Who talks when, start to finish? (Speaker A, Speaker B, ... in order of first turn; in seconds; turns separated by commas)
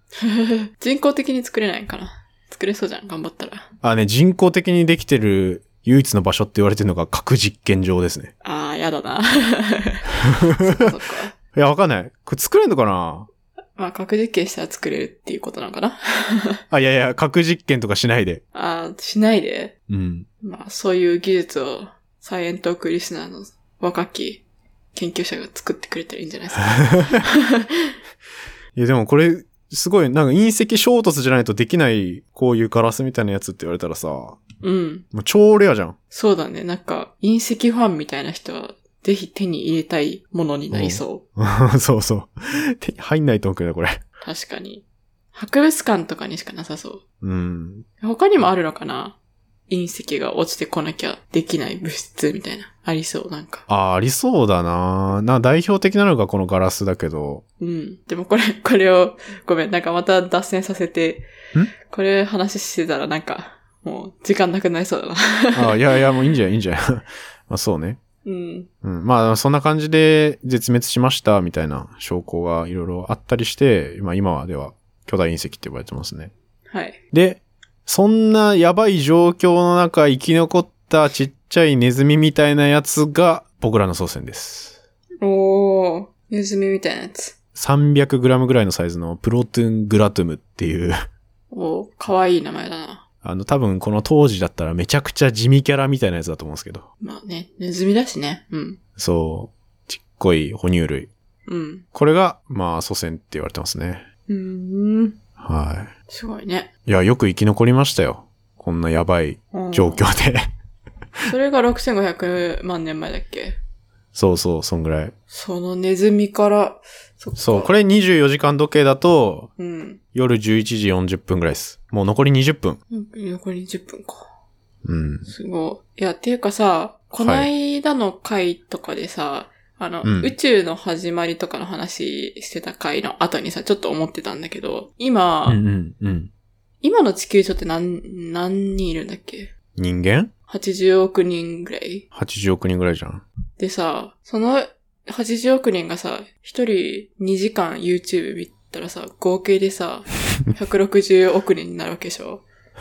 Speaker A: 0.2-3.7, Speaker B: 3.8-8.3, Speaker A: 8.4-11.3, Speaker B: 10.3-10.9, Speaker B: 11.5-13.3, Speaker A: 13.8-16.6, Speaker B: 16.7-18.4, Speaker A: 18.5-19.7, Speaker B: 19.9-20.3, Speaker A: 20.4-24.4, Speaker A: 24.9-27.9, Speaker B: 26.7-27.2, Speaker B: 28.7-34.4, Speaker A: 34.6-35.0, Speaker B: 35.1-36.0, Speaker A: 36.1-41.2, Speaker B: 40.7-44.0, Speaker A: 44.2-47.0, Speaker B: 47.2-47.9, Speaker A: 48.0-49.2, Speaker A: 49.7-53.6, Speaker B: 53.7-57.4, Speaker A: 57.6-61.3, Speaker A: 61.8-65.8, Speaker B: 65.5-68.0, Speaker A: 68.2-68.7, Speaker B: 68.8-76.3, Speaker A: 76.7-77.0, Speaker B: 77.1-84.8, Speaker A: 85.2-87.3, Speaker B: 87.5-91.0, Speaker A: 91.5-93.0, Speaker B: 93.2-96.8, Speaker A: 97.0-98.8, Speaker B: 99.0-101.1, Speaker A: 101.5-101.8, Speaker B: 101.9-104.0, Speaker A: 104.3-105.2, Speaker B: 105.4-105.9, Speaker A: 106.1-106.7, Speaker B: 106.8-110.5, Speaker A: 109.5-110.0, Speaker A: 111.3-113.6, Speaker B: 114.1-115.1, Speaker A: 115.3-117.7, Speaker B: 117.4-119.5, Speaker A: 119.6-120.0, Speaker B: 120.1-122.8, Speaker A: 122.9-124.3, Speaker B: 124.8-125.3, Speaker A: 125.2-135.6, Speaker B: 127.2-127.5, Speaker B: 130.0-130.3, Speaker B: 135.5-136.3, Speaker A: 136.8-139.5, Speaker B: 139.8-140.3, Speaker A: 140.5-142.1, Speaker B: 142.1-143.2, Speaker A: 143.6-152.4